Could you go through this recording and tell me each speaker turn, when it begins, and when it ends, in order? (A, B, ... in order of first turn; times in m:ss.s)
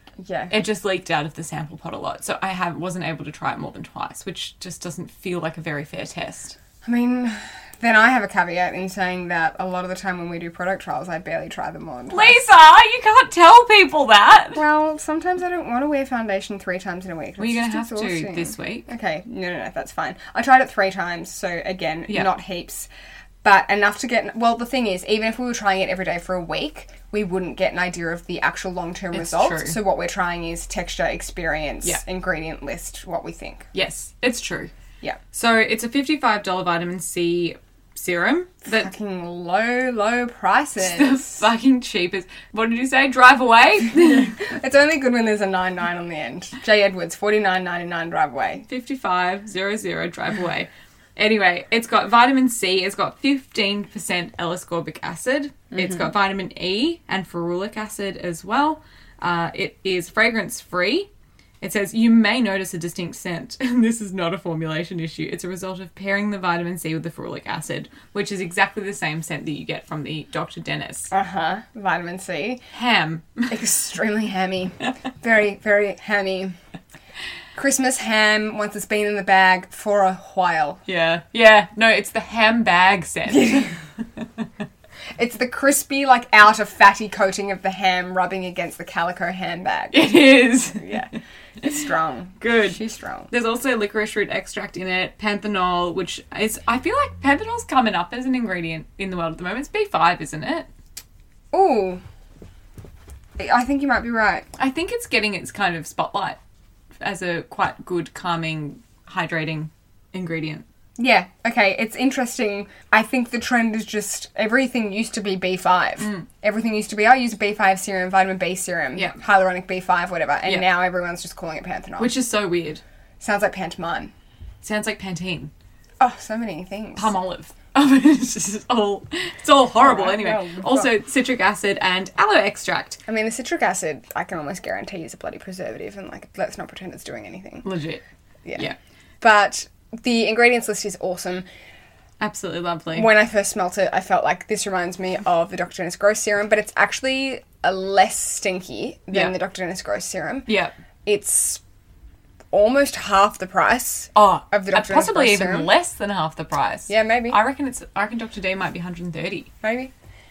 0:00.2-0:00.5 A
0:00.5-0:06.6 B
0:06.8-0:12.4 A
0:12.1-0:14.6 B
0:14.5-0:22.9 A
0:17.4-0:18.9 B
0:23.4-0:33.6 A
0:29.1-0:29.8 B
0:33.7-0:34.7 B
0:35.3-0:38.9 B
0:38.7-0:41.4 A
0:40.8-0:44.4 B
0:44.0-0:48.6 A
0:48.7-1:01.1 B
0:55.7-0:56.1 A
1:01.6-1:11.1 B
1:11.1-1:12.6 A
1:12.7-1:13.5 B
1:13.5-1:16.5 A
1:17.5-1:20.8 A
1:20.9-1:23.7 B
1:23.3-1:23.7 A
1:25.2-1:30.0 A
1:29.9-1:31.0 B
1:30.7-1:33.3 A
1:32.4-1:32.8 B
1:33.3-1:40.7 B
1:41.5-1:42.0 A
1:43.4-1:44.4 A
1:44.6-1:46.4 B
1:47.0-1:50.6 B
1:51.0-2:02.1 A
1:56.0-1:56.2 B
2:02.0-2:02.8 B
2:03.2-2:04.1 A
2:04.6-2:05.5 B
2:06.0-2:07.1 A
2:07.0-2:13.0 B
2:09.8-2:10.9 A
2:13.1-2:17.7 A
2:17.6-2:18.0 B
2:18.4-2:21.4 A
2:22.2-2:23.1 B
2:22.9-2:30.5 A
2:30.5-2:30.7 B
2:31.0-2:31.6 A
2:32.5-2:35.7 A
2:34.2-2:39.5 B
2:36.9-2:37.4 A
2:39.6-2:39.9 A